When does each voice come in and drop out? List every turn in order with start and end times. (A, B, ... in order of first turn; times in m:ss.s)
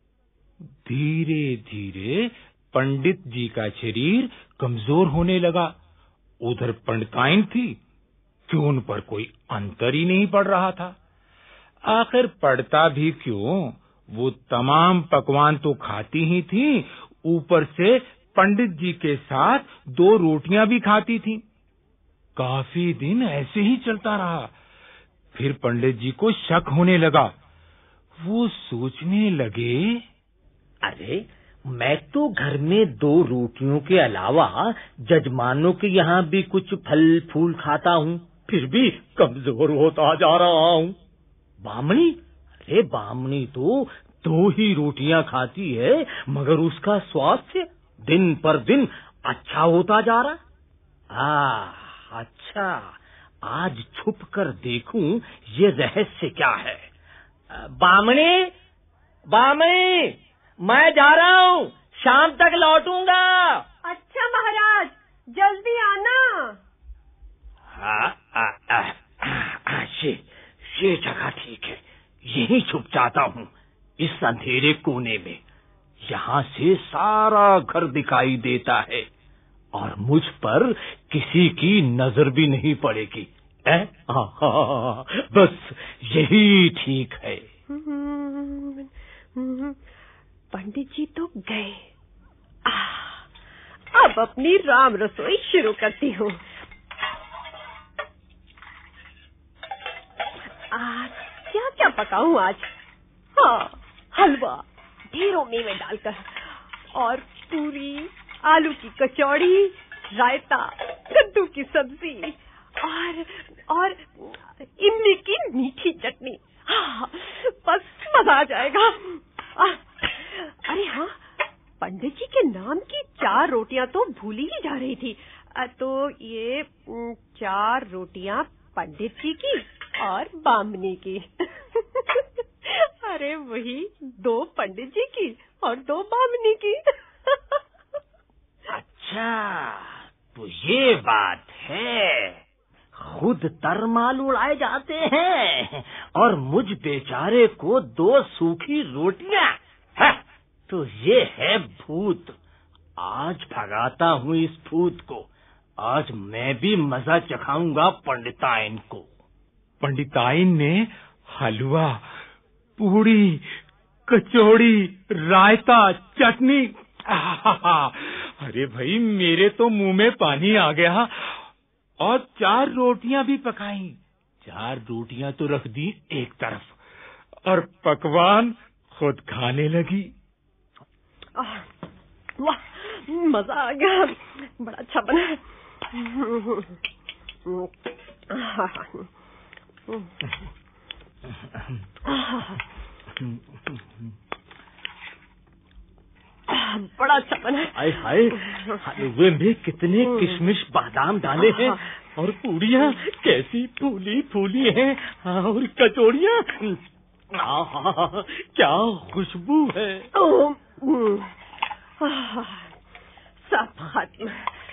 0:00.8-0:05.8 A
0:06.4-0:07.8 A
0:08.5-0:11.0 A
0:11.9-0:21.4 A
0:22.4-0:24.5 A
0:25.4-0:27.3 A
0:28.2-0:30.0 A
0:30.8-0:41.0 B
0:41.6-0:50.4 B
0:51.1-0:56.9 B
0:57.5-0:58.5 B
0:59.3-1:03.6 B
1:03.8-1:06.6 C
1:07.8-1:13.5 B
1:14.0-1:15.4 B
1:16.1-1:19.1 B
1:19.8-1:27.4 B
1:27.7-1:29.8 C
1:30.5-1:31.8 C
1:32.7-1:33.2 C
1:33.9-1:36.4 C
1:40.7-1:42.7 C
1:43.4-2:01.2 C
2:01.8-2:17.6 C
2:18.7-2:22.4 B
2:23.0-2:30.2 B
2:30.7-2:32.4 B
2:33.0-2:35.3 B
2:35.8-2:39.0 B
2:39.8-2:42.0 A
2:42.8-2:43.5 A
2:44.1-2:51.4 A
2:52.0-2:56.8 A
2:57.4-3:00.1 A
3:01.4-3:01.7 C
3:02.4-3:06.8 C
3:07.5-3:09.1 C
3:09.9-3:10.2 C
3:12.1-3:12.6 C
3:16.5-3:17.8 C
3:17.8-3:26.8 B
3:18.4-3:18.8 C
3:21.4-3:21.8 C
3:27.4-3:30.1 B
3:30.1-3:31.4 C
3:32.0-3:32.7 C
3:33.5-3:34.5 C